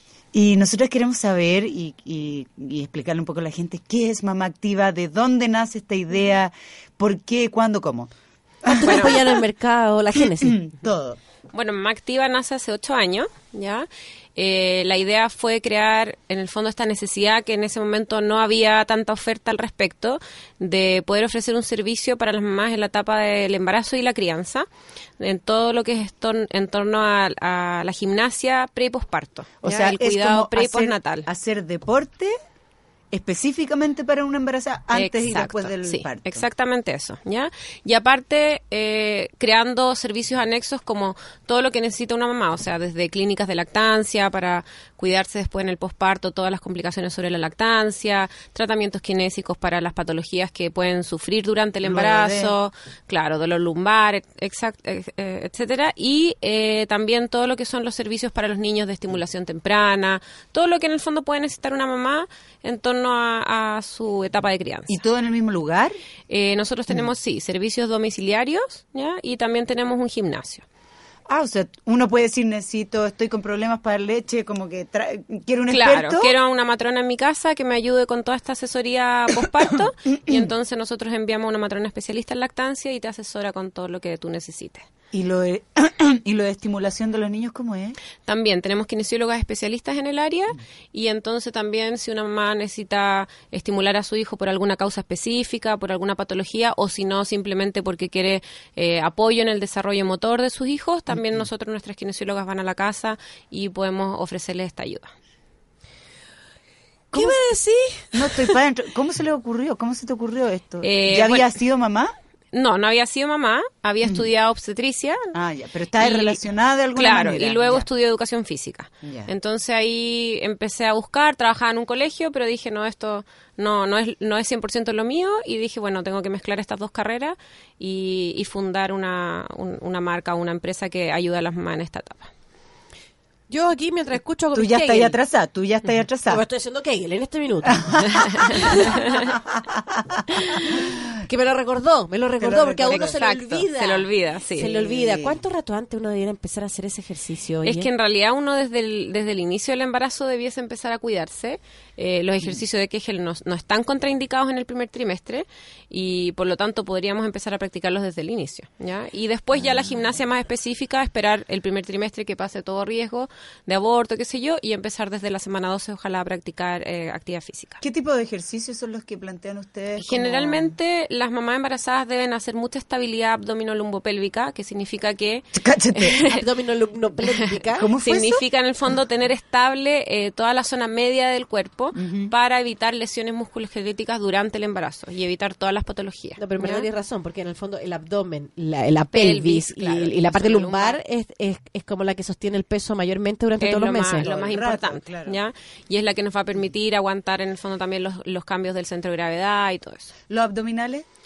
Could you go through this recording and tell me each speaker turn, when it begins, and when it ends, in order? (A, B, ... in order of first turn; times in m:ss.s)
0:00.3-0:08.1 A
0:08.6-0:09.3 A
0:08.6-0:10.6 B
0:08.8-0:09.2 C
0:10.2-0:11.2 A
0:11.5-0:24.6 C
0:25.2-0:31.3 C
0:29.6-0:32.3 A
0:33.1-0:36.4 A
0:34.9-1:05.0 C
0:51.8-0:52.5 A
1:04.9-1:05.9 A
1:06.3-1:10.6 C
1:11.3-1:16.3 A
1:15.7-1:24.8 C
1:20.2-1:20.5 A
1:25.1-1:28.0 A
1:28.2-1:45.1 C
1:41.1-1:41.4 A
1:47.1-1:47.4 A
1:47.1-1:48.6 B
1:48.1-1:52.1 A
1:50.8-1:51.6 C
1:52.5-1:55.3 C
1:54.0-1:54.3 A
1:55.3-1:57.8 A
1:56.0-1:56.4 C
1:56.9-2:12.3 C
1:59.0-1:59.3 A
2:13.5-2:15.2 B
2:14.5-2:16.4 A
2:16.3-2:18.9 B
2:17.7-2:21.0 A
2:18.1-2:19.3 C
2:21.2-2:27.9 B
2:22.4-2:23.1 A
2:22.9-2:24.8 C
2:24.7-2:25.4 A
2:27.6-2:47.8 C
2:39.6-2:40.1 A
2:47.8-2:50.7 A
2:50.0-2:56.4 C
2:55.5-2:56.2 A
2:56.2-2:57.9 B
2:57.2-3:06.9 C
2:57.8-2:58.4 A
3:01.9-3:02.3 A
3:06.4-3:14.3 B
3:09.1-3:11.0 C
3:13.6-3:20.1 C
3:14.2-3:15.4 A
3:20.3-3:21.0 A